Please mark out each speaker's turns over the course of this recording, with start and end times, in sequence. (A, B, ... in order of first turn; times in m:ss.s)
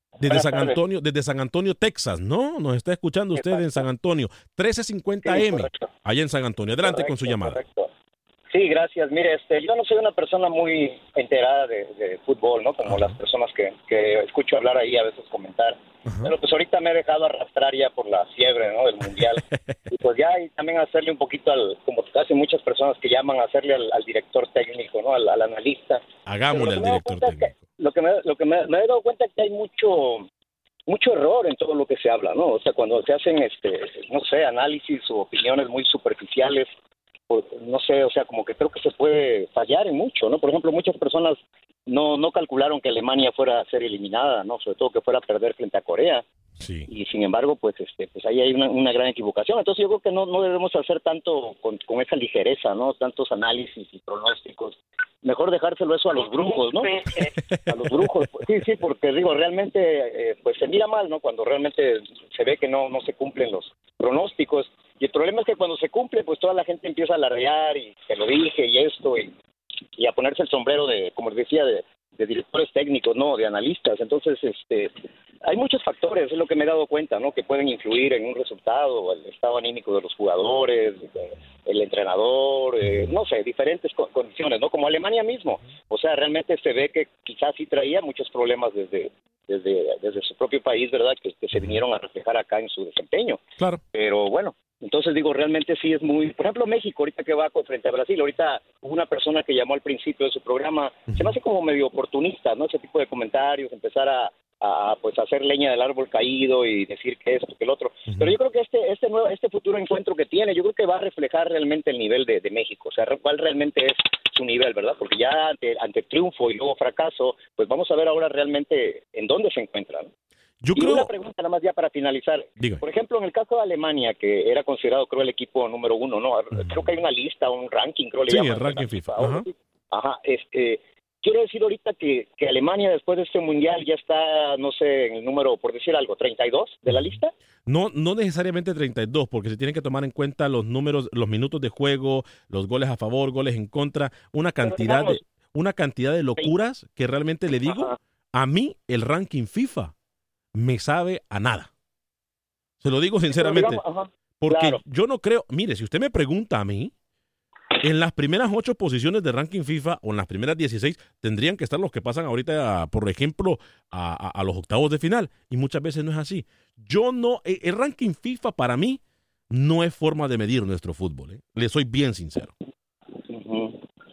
0:00.2-0:07.6 A
0:00.2-0:00.8 B
0:03.4-0:03.8 B
0:05.2-0:05.9 B
0:06.8-0:07.9 B
0:08.5-0:30.3 B
0:12.8-0:13.2 A
0:16.1-0:16.3 A
0:19.2-0:19.7 A
0:26.2-0:27.6 A
0:30.9-0:36.7 B
0:37.3-0:46.2 B
0:46.6-0:46.9 A
0:46.9-1:09.3 B
0:57.4-0:58.1 A
1:10.0-1:33.4 B
1:22.8-1:23.1 A
1:33.9-2:00.1 B
1:41.1-1:41.4 A
1:48.1-1:48.4 A
2:00.6-2:01.1 A
2:00.7-2:17.3 B
2:02.6-2:02.8 A
2:06.5-2:06.9 A
2:08.3-2:09.4 A
2:16.9-2:17.2 A
2:17.7-2:29.9 A
2:24.6-2:25.2 B
2:27.6-2:27.9 B
2:30.5-2:31.7 A
2:32.8-2:33.8 A
2:33.3-2:34.8 B
2:34.4-2:36.9 A
2:37.8-2:49.0 A
2:49.5-2:52.5 A
2:53.3-2:53.8 B